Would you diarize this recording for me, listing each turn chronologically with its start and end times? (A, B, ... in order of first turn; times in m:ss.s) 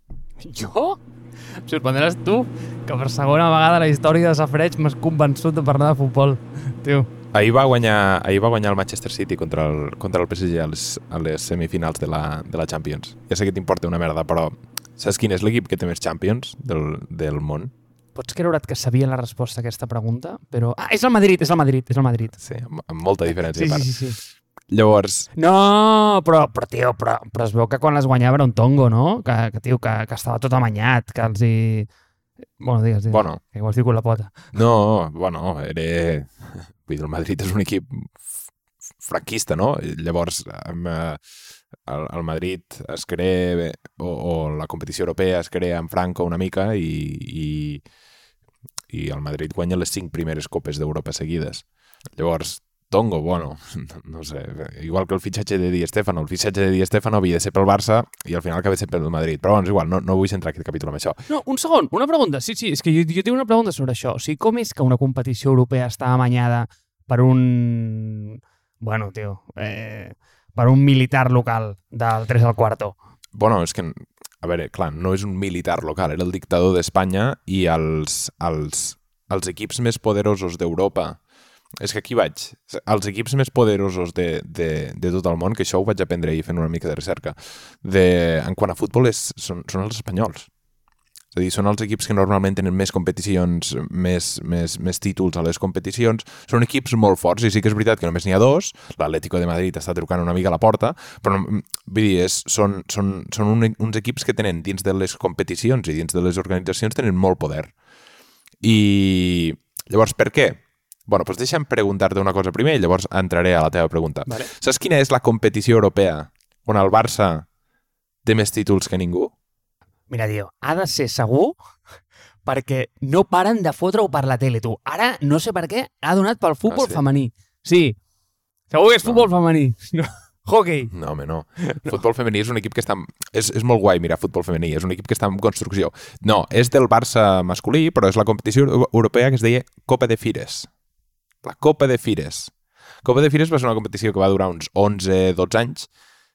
0:00.4-0:01.0 A
0:01.6-0:07.1 A
0:07.3-0:17.7 B
0:18.2-0:22.4 A
0:22.4-0:24.0 B
0:23.5-0:24.2 A
0:24.7-0:25.3 B
0:25.4-0:31.9 A
0:32.6-0:34.4 A
0:33.1-0:33.4 B
0:34.5-0:38.1 B
0:39.0-0:41.2 B
0:41.8-0:47.8 B
0:48.9-0:51.6 B
0:52.2-1:01.2 B
1:01.3-1:13.0 A
1:13.4-1:21.2 B
1:21.8-1:30.5 B
1:31.3-1:47.7 B
1:48.6-1:57.5 B
1:58.2-1:59.3 B
2:00.1-2:01.6 A
2:02.5-2:08.0 A
2:06.7-2:07.0 B
2:08.7-2:10.9 A
2:09.0-2:09.3 B
2:10.9-2:20.7 B
2:21.4-2:22.5 B
2:23.0-2:25.9 B